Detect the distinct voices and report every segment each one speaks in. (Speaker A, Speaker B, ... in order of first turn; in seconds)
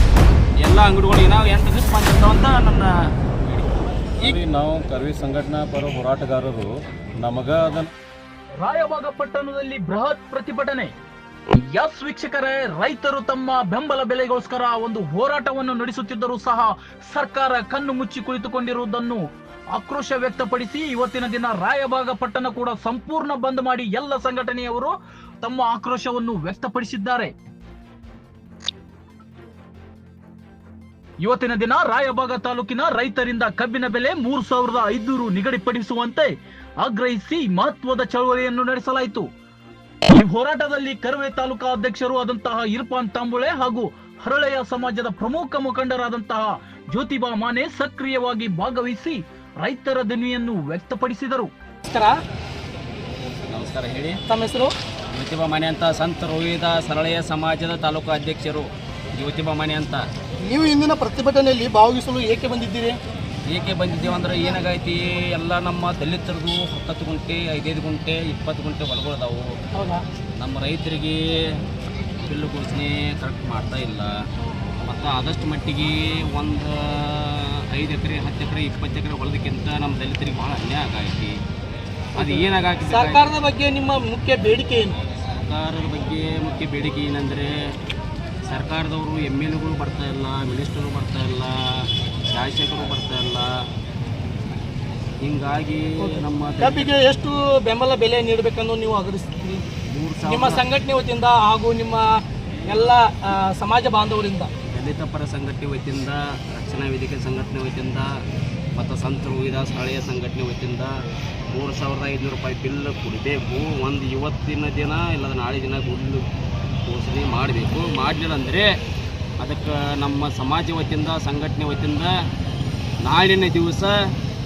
Speaker A: 0.6-3.7, 53.5-54.2, 55.1-60.1, 63.5-69.5, 70.4-71.6, 72.2-74.1, 74.8-81.3, 82.2-83.2, 85.3-87.7, 88.5-93.5, 95.2-96.9, 99.8-100.6, 104.7-108.1, 108.8-110.9, 111.5-116.2, 116.8-118.7, 119.4-122.2, 123.0-124.1
Speaker B: 4.2-6.7, 7.2-7.9
Speaker C: 8.6-10.9, 11.5-19.2, 19.7-27.3, 31.2-39.2, 40.1-51.5
Speaker D: 51.9-52.1, 54.3-54.7, 60.4-63.0, 69.8-70.0, 82.2-84.9, 96.0-99.6, 100.3-104.5